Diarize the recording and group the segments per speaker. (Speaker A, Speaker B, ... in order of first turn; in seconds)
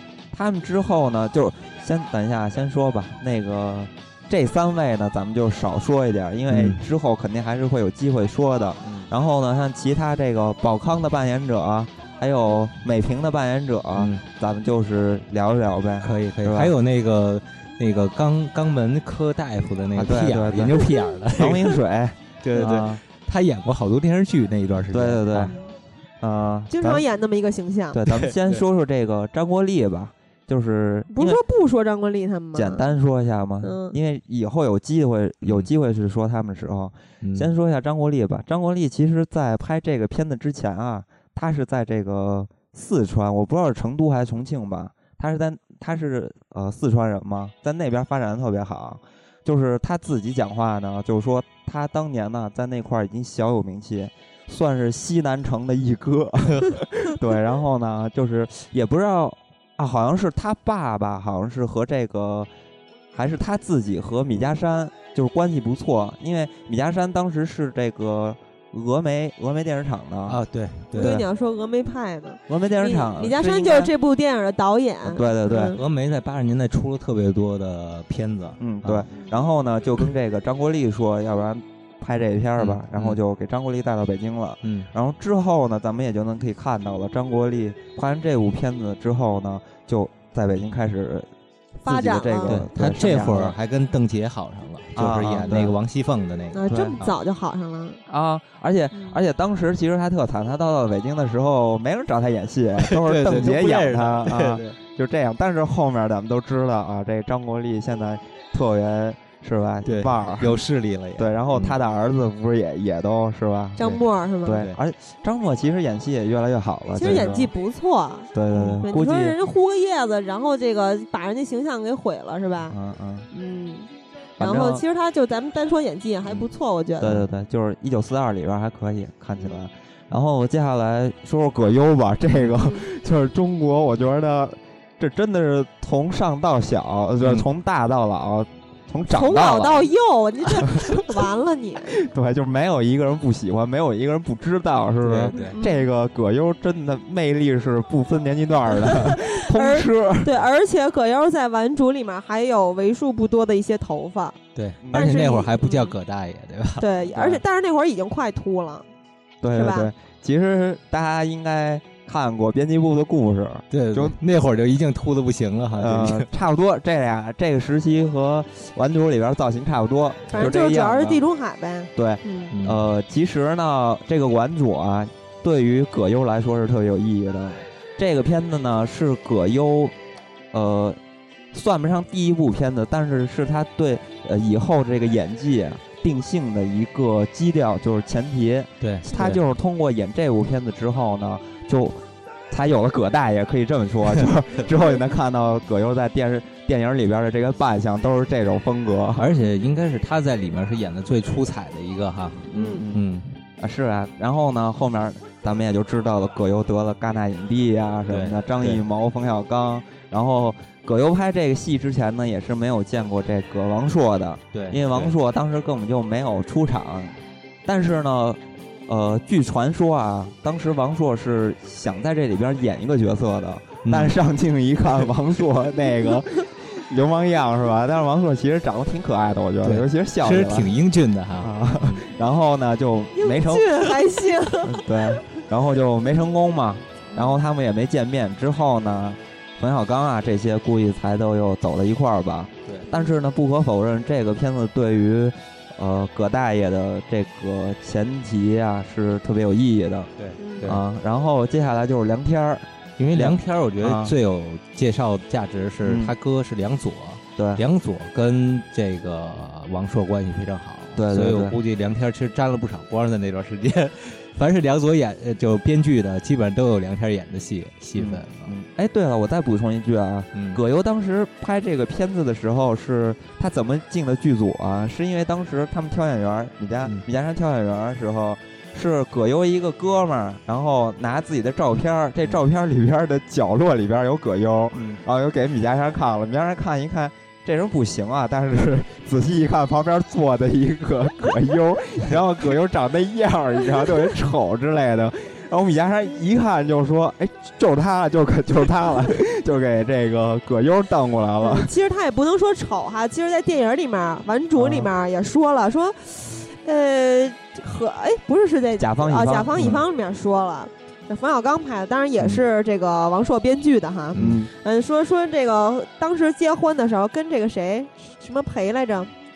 Speaker A: 0.3-16.7, 19.9-23.0, 24.9-25.5, 26.2-27.0, 27.9-31.4, 32.5-62.5, 63.1-70.4, 70.9-71.2, 72.5-73.9, 75.0-75.7, 78.6-91.3, 91.8-93.5, 94.9-95.8, 96.7-97.0, 98.1-110.6, 111.2-113.8, 114.5-117.5, 118.3-119.4, 122.7-123.3, 124.4-124.8, 127.0-139.9, 140.5-140.9, 141.9-150.3, 154.8-155.2, 157.2-157.4, 159.4-164.2, 165.8-171.2, 171.9-179.9, 180.5-181.0, 181.5-199.3, 202.5-203.0, 203.6-230.7, 231.4-234.0, 234.6-250.1, 250.6-254.1, 255.8-256.1, 257.4-257.6, 260.9-261.6, 267.9-301.7, 304.6-304.9, 308.8-309.8, 314.2-314.5
Speaker B: 6.5-6.8, 13.9-14.2, 16.0-21.8, 22.4-25.5, 28.2-28.6, 37.2-37.5, 70.3-71.3, 75.7-79.0, 82.6-83.2, 92.5-97.1, 102.8-104.8, 109.8-111.8, 113.8-114.8, 145.0-145.6, 154.5-156.9, 163.7-166.3, 172.5-172.8, 188.8-189.4, 199.2-203.3, 208.1-208.8, 214.5-215.1, 223.8-224.2, 229.6-232.1, 250.2-250.8, 253.0-268.5, 270.3-270.6, 284.8-285.0, 314.1-314.4
Speaker C: 26.7-28.0, 31.1-32.9, 33.6-33.9, 71.0-75.8, 91.8-92.6, 96.5-98.0, 98.9-99.2, 113.8-114.6, 117.0-122.7, 123.3-127.2, 132.4-132.8, 139.1-141.9, 145.3-145.8, 148.8-154.4, 154.9-155.9, 156.8-158.8, 159.5-159.9, 170.3-172.5, 202.5-202.8, 233.1-234.9, 237.1-237.4, 250.4-250.7, 301.4-319.1